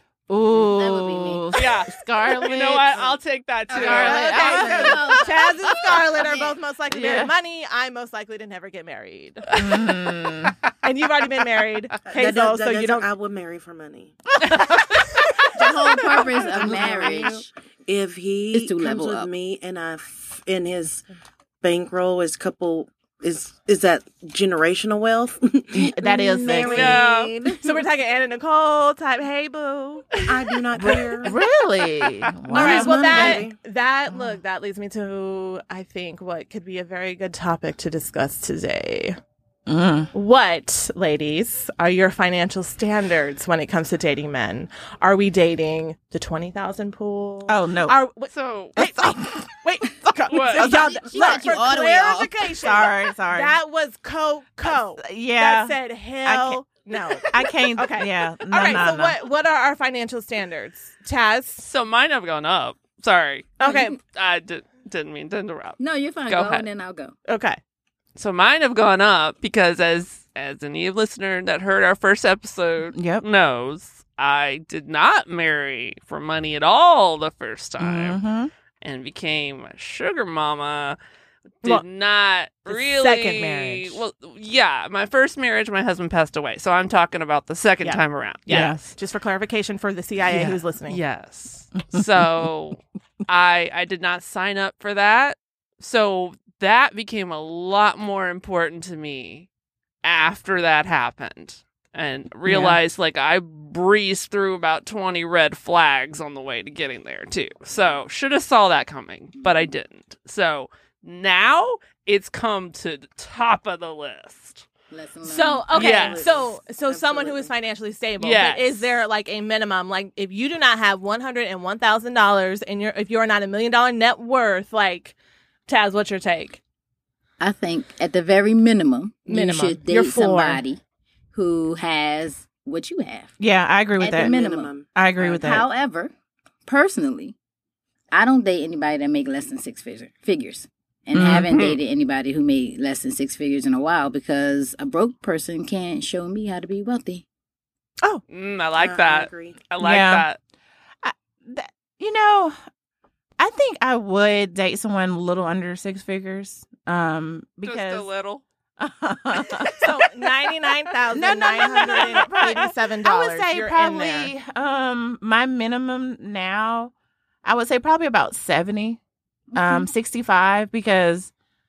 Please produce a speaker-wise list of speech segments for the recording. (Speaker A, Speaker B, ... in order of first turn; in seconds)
Speaker A: 0.3-3.0, 3.7-5.2, 6.9-7.3, 9.5-10.6, 25.7-27.0, 30.8-33.5, 39.7-40.1, 47.5-48.0, 48.8-49.4, 52.6-53.6, 54.7-56.6, 57.2-59.2, 72.9-73.2, 77.8-78.5, 88.5-88.9, 102.5-102.8, 133.4-134.3, 134.9-135.7, 141.1-141.5, 149.8-150.3, 151.0-152.6, 153.4-158.1, 158.8-159.9, 161.1-166.9, 167.4-169.0, 169.5-171.3
Speaker B: 0.5-1.6, 3.7-6.6, 15.5-17.5, 18.5-19.3, 50.6-52.4, 63.6-63.9, 65.8-67.1, 109.3-109.7, 114.9-115.8, 127.4-130.8, 131.3-133.3, 134.0-136.1, 136.7-137.3, 138.1-147.2, 169.5-169.8
Speaker C: 1.5-4.8, 26.6-27.3, 48.3-48.8, 50.3-50.7, 61.6-66.7, 68.2-78.2, 78.8-81.0, 81.6-88.8, 90.2-99.5, 100.0-114.7, 115.7-116.3, 118.2-118.9, 141.5-141.8, 148.3-150.4, 157.6-158.4
Speaker D: 3.7-9.6, 10.8-13.1, 26.6-27.0, 27.6-30.2, 32.5-39.2, 40.1-61.6, 63.6-64.0, 67.3-67.6, 82.7-84.0, 87.8-91.0, 115.2-125.1, 125.7-126.6, 129.3-130.6, 159.8-164.3
Speaker E: 12.1-14.2, 16.4-21.0, 21.6-27.7, 30.2-31.3, 32.5-33.5, 115.7-117.5, 134.1-134.9, 148.8-149.6